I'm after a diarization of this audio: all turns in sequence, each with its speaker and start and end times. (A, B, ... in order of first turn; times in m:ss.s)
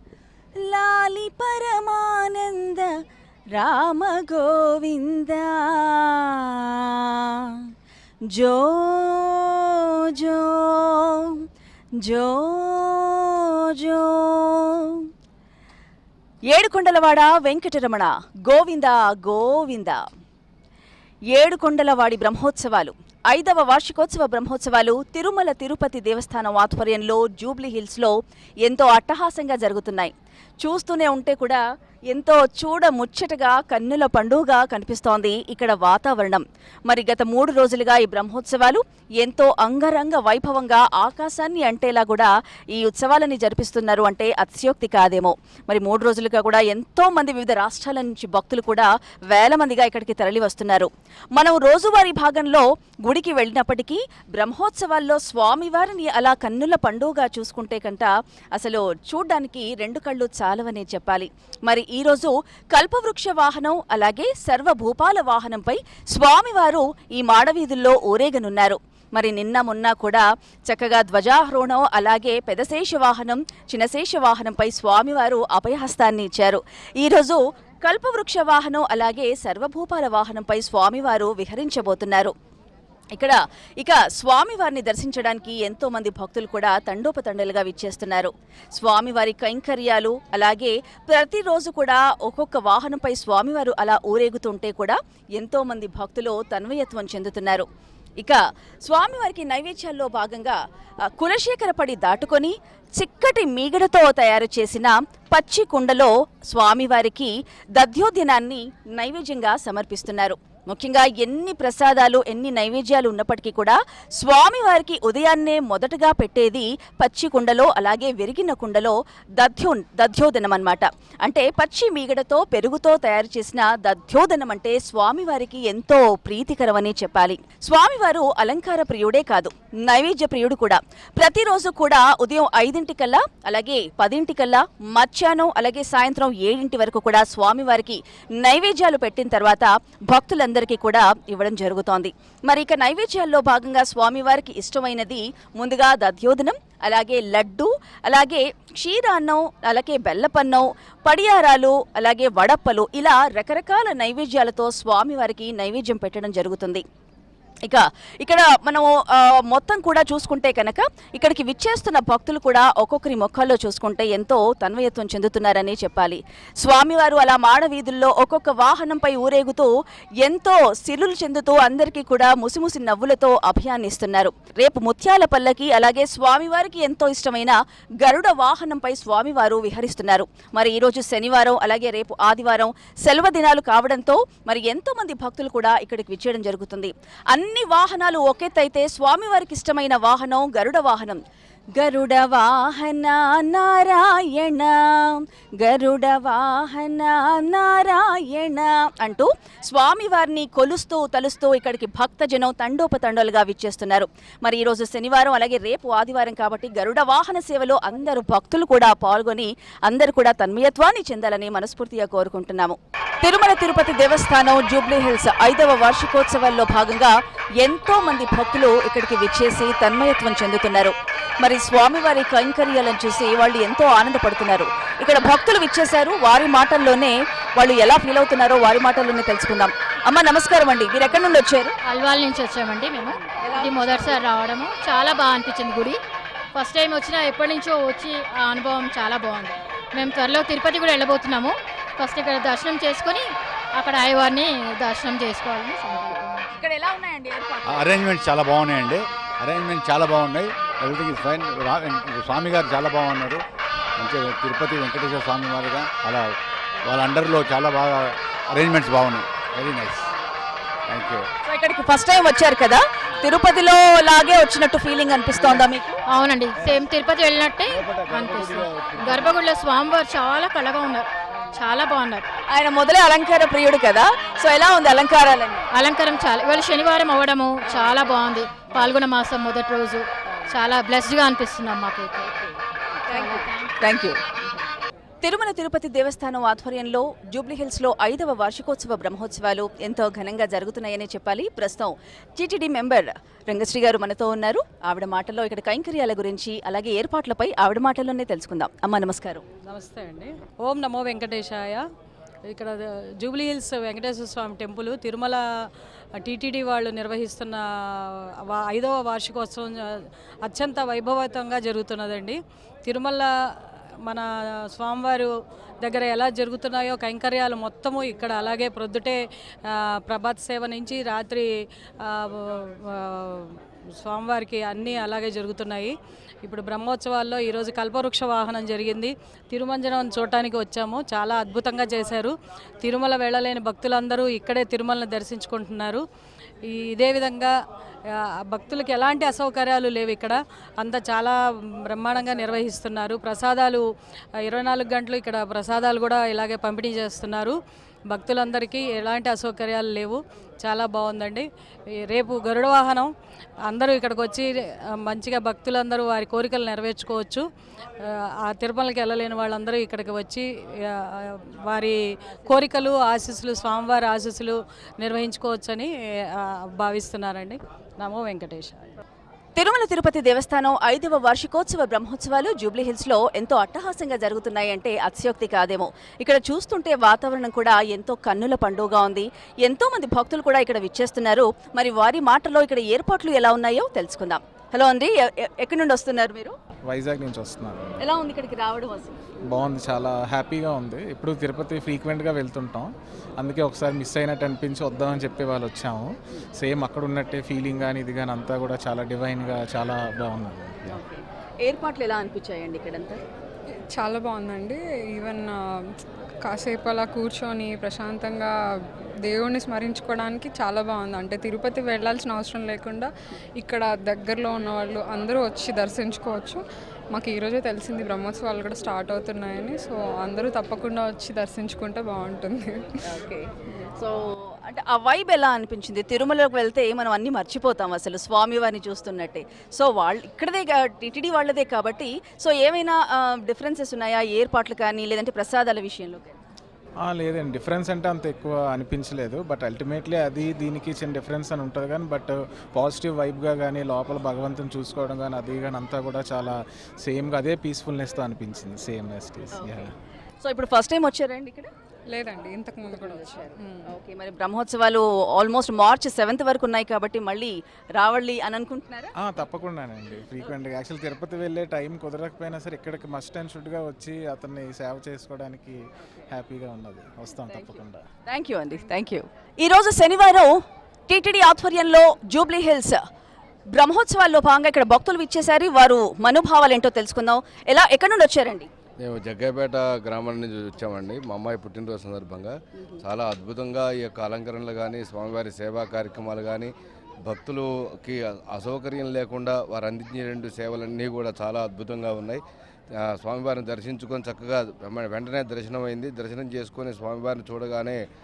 0:00.6-0:02.9 A
0:03.6-0:07.5 A
0:08.3-0:11.4 A
0:12.0-0:15.0 A
0:16.5-0:20.0 A
0:21.3-1:22.3 A
1:23.2-1:37.7 A
1:38.2-1:40.6 A
1:41.1-2:36.8 A
2:37.7-2:49.7 A
2:50.2-3:11.2 A
3:11.8-3:51.7 A
3:51.8-3:56.0 B
3:53.4-3:54.2 A
3:56.6-4:03.2 B
4:03.8-4:06.5 B
4:06.6-4:08.1 A
4:07.6-4:13.4 C
4:14.0-4:16.3 C
4:16.9-4:20.1 C
4:20.9-4:21.3 C
4:21.4-4:26.0 A
4:26.1-4:32.2 B
4:32.5-4:35.7 A
4:35.7-4:42.3 B
4:43.1-4:44.2 A
4:43.1-4:43.7 B
4:45.2-4:59.4 A
4:59.7-5:01.8 D
5:02.5-5:05.4 D
5:06.2-5:07.6 D
5:08.5-5:09.8 D
5:10.4-5:13.3 D
5:14.0-5:15.3 D
5:15.8-5:21.5 D
5:22.0-5:36.0 D
5:36.7-5:37.6 D
5:38.1-5:41.4 D
5:41.9-5:43.8 D
5:44.4-5:47.6 D
5:48.1-5:51.5 D
5:52.1-5:53.1 D
5:53.6-5:57.5 D
5:58.0-6:09.0 D
6:09.6-6:26.6 A
6:26.9-6:28.0 E
6:28.0-6:29.2 A
6:29.5-6:40.9 E
6:40.9-6:43.2 A
6:44.0-6:48.5 F
6:49.3-6:53.1 F
6:53.6-6:56.6 F
6:57.1-7:02.9 F
7:03.0-7:16.4 A
7:17.0-7:29.9 E
7:30.4-7:31.7 A
7:32.1-7:33.9 F
7:32.9-7:39.1 A
7:39.2-7:45.8 E
7:46.3-7:48.0 E
7:48.3-7:50.5 A
7:51.1-7:53.0 A
7:53.7-7:58.7 A
7:59.0-8:06.7 G
8:07.2-8:12.4 G
8:13.2-8:18.0 G